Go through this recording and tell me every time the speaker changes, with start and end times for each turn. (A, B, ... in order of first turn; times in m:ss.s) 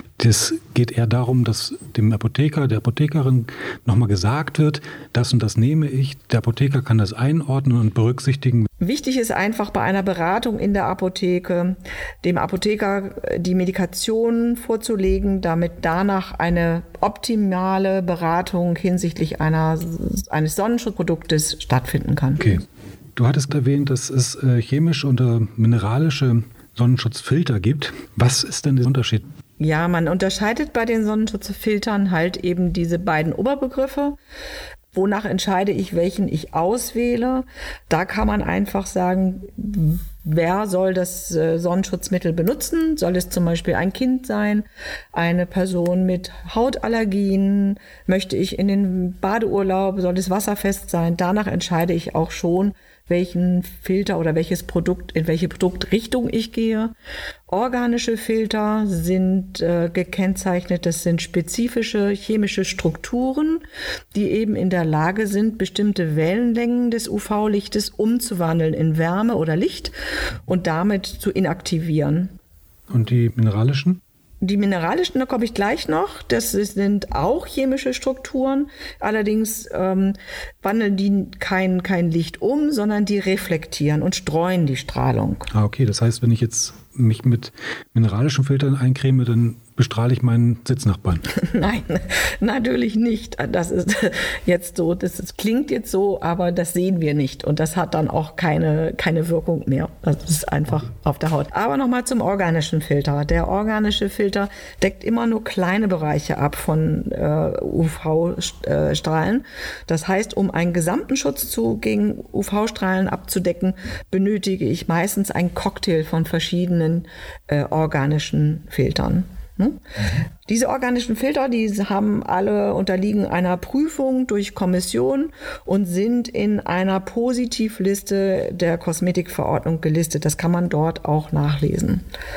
0:00.2-0:08.7 A
0:08.8-0:22.5 B
0:23.2-0:29.2 A
0:29.6-0:34.2 B
0:34.9-0:56.9 B
0:57.5-1:03.6 B
1:04.1-1:09.9 B
1:10.5-1:12.3 B
1:12.9-1:14.0 A
1:14.4-1:25.5 B
1:25.5-1:31.2 A
1:31.3-1:59.8 B
2:00.5-2:12.0 B